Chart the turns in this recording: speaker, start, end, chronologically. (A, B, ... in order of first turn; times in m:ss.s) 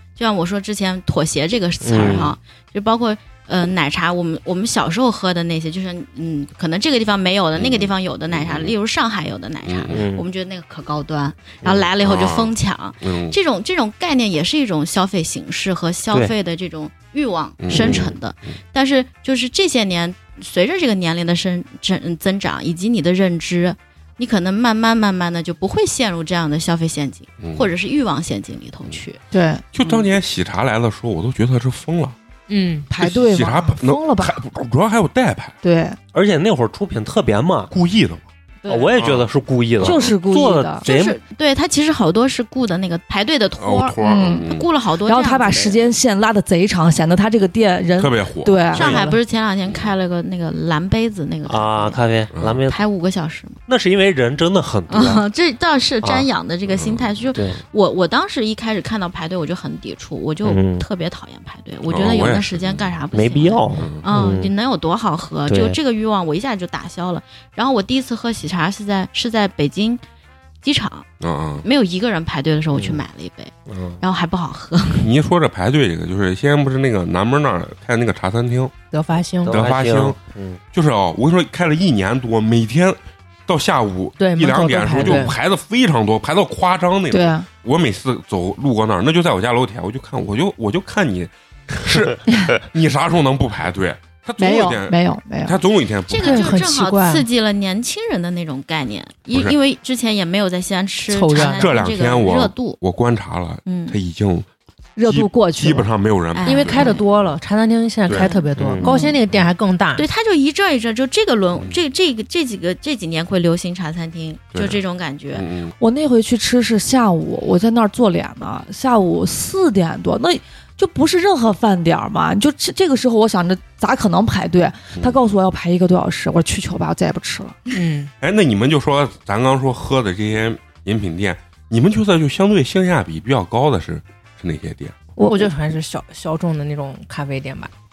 0:00.2-0:29.2 A
0:01.8-0:02.3 B
0:02.0-0:02.3 C
0:07.6-0:08.7 C
0:09.6-0:10.0 C
0:09.9-0:10.2 B
0:11.6-0:11.9 B
0:12.0-0:13.4 C
0:17.6-0:18.1 C
0:17.7-0:18.1 B
0:27.4-0:27.7 C
0:29.3-0:29.6 D
0:29.7-0:32.2 C
0:32.5-0:32.9 E
0:32.9-0:34.4 D
0:33.0-0:35.5 C
0:35.6-0:36.0 D
0:36.1-0:37.7 B
0:37.7-0:38.2 C
0:38.7-0:41.2 B
0:38.9-0:39.3 C
0:39.8-0:40.8 D
0:39.8-0:40.1 C
0:40.8-0:45.8 A
0:43.6-0:44.7 C
0:44.0-0:44.5 D
0:45.0-0:49.2 D
0:48.0-0:49.0 C
0:48.7-0:52.0 A
0:49.7-0:49.9 C
0:51.4-0:52.8 B
0:52.3-0:52.6 C
0:52.7-0:53.6 A
0:53.7-0:55.2 B
0:54.9-1:10.0 A
0:56.7-0:57.2 C
0:57.3-0:57.6 B
1:00.4-1:00.8 B
1:01.9-1:02.9 C
1:03.1-1:04.5 B
1:03.8-1:04.0 C
1:05.5-1:05.8 B
1:10.6-1:11.1 A
1:11.2-1:11.6 C
1:11.6-1:15.1 A
1:12.7-1:13.0 B
1:13.7-1:14.0 B
1:15.0-1:18.7 C
1:18.9-1:19.7 E
1:19.4-1:20.6 B
1:19.5-1:20.2 C
1:20.7-1:36.7 C
1:24.2-1:25.3 E
1:27.1-1:27.5 D
1:34.4-1:35.6 D
1:36.1-1:42.8 A
1:36.2-1:37.2 E
1:41.1-1:41.7 E
1:41.6-1:44.5 C
1:43.6-1:44.0 A
1:45.0-1:45.9 D
1:45.0-1:46.9 C
1:46.3-1:47.0 A
1:46.4-1:50.0 E
1:48.1-1:49.1 A
1:48.6-1:48.9 B
1:49.9-1:55.4 A
1:51.5-1:51.8 C
1:54.5-1:54.8 C
1:55.3-1:55.7 C
1:55.8-2:07.6 D
2:07.7-2:08.1 E
2:08.2-2:15.0 C
2:15.2-2:15.5 D
2:15.2-2:17.7 E